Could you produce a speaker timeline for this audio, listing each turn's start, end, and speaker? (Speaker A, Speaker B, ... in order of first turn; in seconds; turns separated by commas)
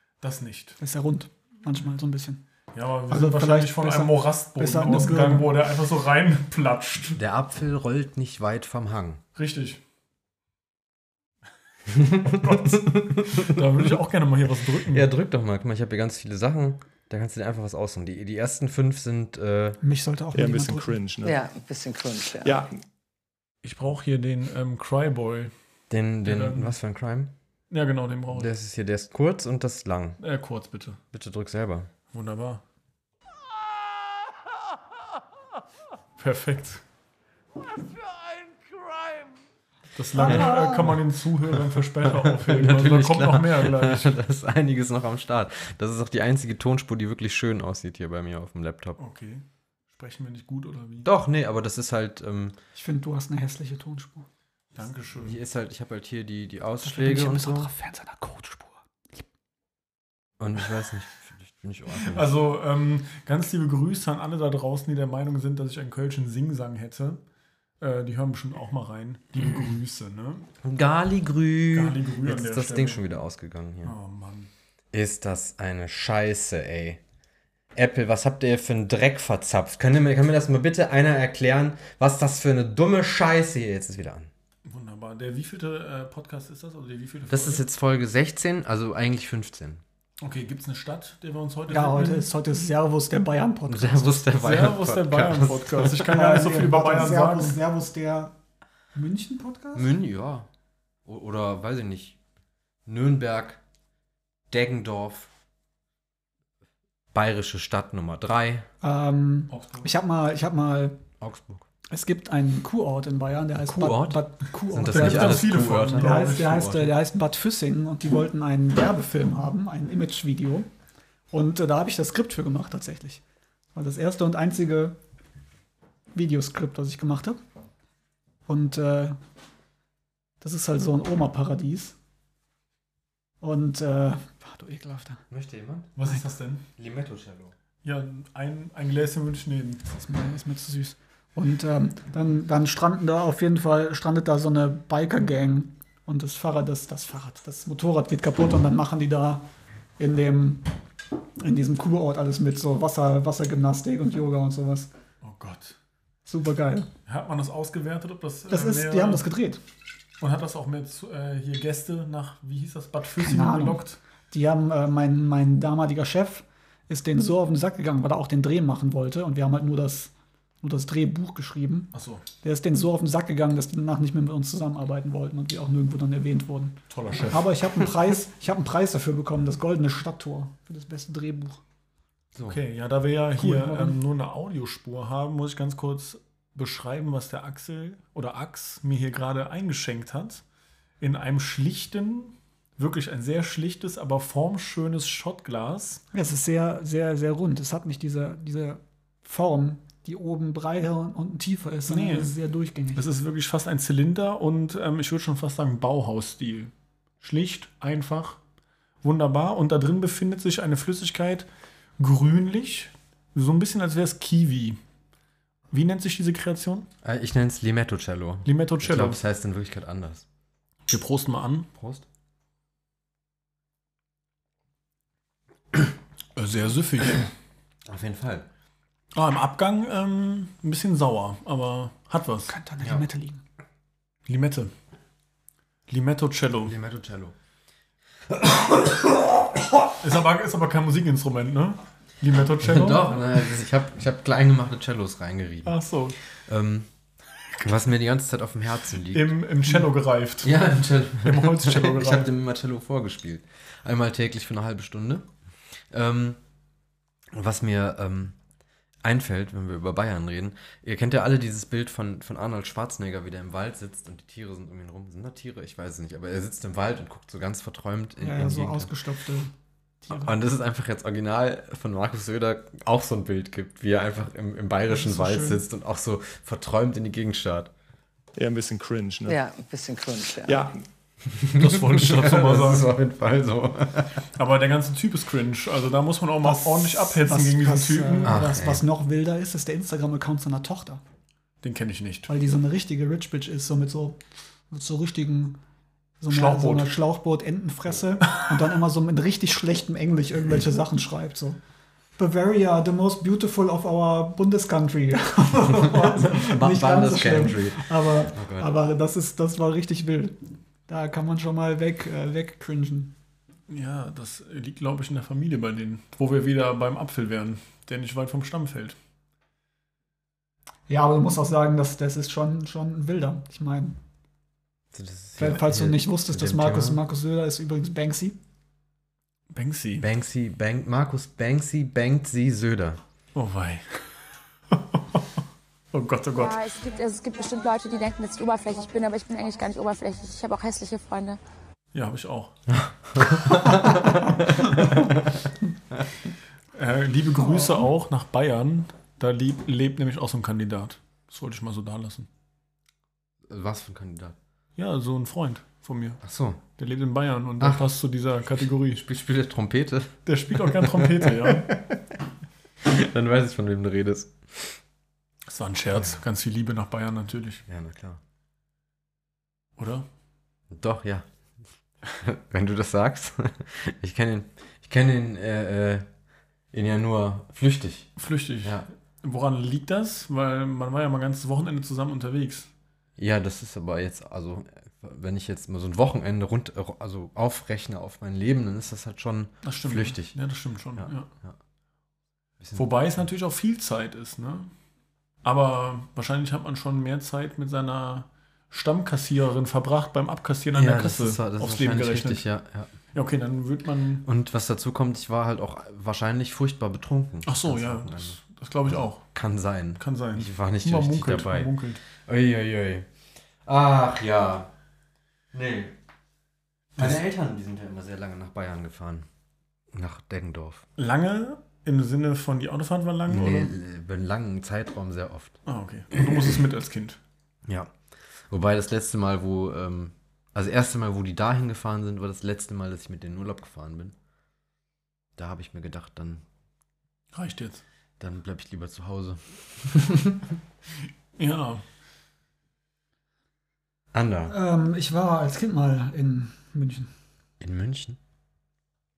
Speaker A: 0.2-0.8, Speaker B: 0.8-2.4, Speaker A: 2.7-7.2, Speaker B: 3.1-5.5, Speaker C: 7.2-9.2, Speaker A: 9.3-9.8, Speaker C: 11.9-14.0, Speaker A: 12.3-15.1, Speaker C: 14.8-19.8, Speaker B: 19.8-20.9, Speaker D: 20.3-21.4, Speaker E: 21.2-22.7, Speaker D: 22.4-22.7, Speaker A: 23.6-25.5, Speaker C: 25.9-27.3, Speaker A: 26.2-26.7, Speaker A: 27.7-28.5, Speaker C: 28.3-30.2, Speaker A: 30.2-31.0, Speaker C: 31.1-31.9, Speaker A: 32.1-32.6, Speaker A: 36.2-36.8, Speaker A: 40.0-44.1, Speaker B: 40.1-41.0, Speaker C: 42.0-49.0, Speaker A: 49.0-51.1, Speaker C: 51.0-52.6, Speaker B: 52.7-54.3, Speaker A: 54.7-55.4, Speaker C: 55.2-57.7, Speaker B: 56.8-58.8, Speaker C: 60.4-62.3, Speaker A: 61.9-67.2, Speaker A: 67.8-70.5, Speaker C: 70.6-73.9, Speaker A: 71.7-73.0, Speaker A: 73.8-74.5, Speaker C: 74.9-77.0, Speaker C: 77.7-84.3, Speaker A: 84.7-87.6, Speaker C: 87.3-89.8, Speaker A: 90.2-92.3, Speaker B: 91.7-94.2, Speaker C: 93.7-96.1, Speaker A: 94.4-97.6, Speaker B: 96.0-98.3, Speaker B: 98.9-99.9, Speaker C: 99.7-100.5, Speaker C: 101.0-102.2, Speaker C: 102.8-103.6, Speaker C: 104.5-105.3, Speaker C: 107.1-108.7, Speaker B: 108.8-111.0, Speaker A: 109.5-109.9, Speaker C: 111.2-111.7, Speaker B: 111.9-120.7, Speaker C: 113.6-116.9, Speaker A: 114.9-116.8, Speaker B: 121.3-123.2, Speaker B: 123.7-125.0, Speaker B: 126.1-127.4, Speaker B: 128.5-129.2, Speaker B: 130.4-131.9, Speaker B: 133.4-135.2, Speaker C: 135.3-136.0, Speaker A: 136.0-136.6, Speaker C: 136.8-137.5, Speaker A: 137.8-139.8, Speaker B: 139.9-149.4, Speaker B: 150.0-150.7, Speaker B: 151.4-154.9, Speaker A: 155.2-155.8, Speaker B: 156.3-156.9, Speaker A: 157.1-159.3, Speaker B: 158.5-159.6, Speaker A: 160.2-164.0, Speaker B: 163.2-170.1, Speaker B: 170.6-171.9, Speaker A: 171.9-172.2, Speaker B: 172.4-176.8, Speaker A: 176.9-177.5, Speaker B: 177.3-181.6, Speaker C: 182.3-182.6, Speaker A: 182.4-190.4, Speaker B: 183.4-184.0, Speaker A: 191.0-196.0, Speaker B: 196.1-203.0, Speaker A: 201.9-202.3, Speaker A: 202.9-208.4, Speaker A: 209.0-211.4, Speaker A: 212.0-214.8, Speaker A: 215.7-216.9, Speaker C: 217.0-220.2, Speaker A: 218.4-219.2, Speaker A: 220.9-221.7, Speaker C: 221.7-222.1, Speaker A: 226.3-227.3, Speaker C: 227.8-228.5, Speaker A: 229.1-232.5, Speaker B: 232.5-233.4, Speaker A: 234.3-234.7, Speaker A: 235.9-236.7, Speaker C: 236.6-237.3, Speaker C: 238.3-239.8, Speaker A: 240.0-243.4, Speaker C: 242.6-245.8, Speaker A: 245.7-246.2, Speaker C: 246.3-246.9, Speaker C: 247.6-249.4, Speaker A: 249.1-252.3, Speaker C: 250.4-255.3, Speaker C: 255.9-256.4, Speaker C: 257.3-258.4, Speaker C: 259.0-268.9, Speaker B: 268.2-269.5, Speaker B: 270.0-270.4, Speaker C: 270.1-277.7, Speaker B: 274.9-275.6, Speaker D: 278.4-279.4, Speaker E: 279.3-280.7, Speaker C: 281.2-284.2, Speaker A: 281.5-282.9, Speaker A: 284.3-288.4, Speaker B: 286.4-291.0, Speaker C: 288.2-288.8, Speaker A: 291.6-292.3, Speaker B: 292.3-294.2, Speaker B: 294.7-295.6, Speaker B: 296.2-301.6, Speaker A: 296.3-297.0, Speaker B: 302.2-310.4, Speaker C: 306.0-308.7, Speaker B: 310.9-313.1, Speaker A: 313.7-318.9, Speaker B: 320.9-324.0, Speaker C: 324.9-327.0, Speaker B: 325.4-328.4, Speaker A: 329.5-330.1, Speaker C: 330.0-333.0, Speaker A: 333.3-334.1, Speaker A: 334.7-335.2, Speaker A: 335.9-336.6, Speaker F: 336.3-341.4, Speaker A: 341.9-342.5, Speaker C: 342.7-345.2, Speaker A: 346.7-352.3, Speaker B: 347.4-347.9, Speaker C: 353.5-354.4, Speaker A: 354.8-356.2, Speaker C: 356.2-356.6, Speaker A: 356.8-359.0, Speaker C: 357.6-357.8, Speaker C: 358.9-362.1, Speaker A: 360.2-361.7, Speaker C: 362.8-364.8, Speaker A: 365.5-367.6, Speaker C: 367.7-368.2, Speaker A: 369.8-370.1, Speaker C: 370.7-371.2, Speaker C: 372.1-376.1, Speaker C: 376.7-378.1, Speaker A: 378.2-382.7, Speaker C: 383.2-390.4, Speaker A: 389.6-391.3, Speaker C: 391.0-391.6, Speaker C: 392.6-392.9, Speaker A: 392.7-394.7, Speaker A: 395.4-402.4, Speaker C: 400.7-402.9, Speaker A: 403.1-404.2, Speaker C: 404.2-413.1, Speaker A: 407.4-409.2, Speaker A: 410.0-412.0, Speaker C: 413.6-414.7, Speaker C: 415.5-415.9, Speaker C: 417.0-419.3, Speaker C: 419.9-420.8, Speaker A: 421.0-423.7, Speaker C: 423.3-425.6, Speaker A: 425.6-427.2, Speaker C: 427.6-427.9, Speaker C: 428.5-434.1, Speaker C: 435.4-436.4, Speaker A: 437.3-437.8, Speaker C: 438.2-440.4, Speaker A: 441.4-441.8, Speaker C: 444.1-444.5, Speaker B: 444.5-447.1, Speaker C: 447.6-448.2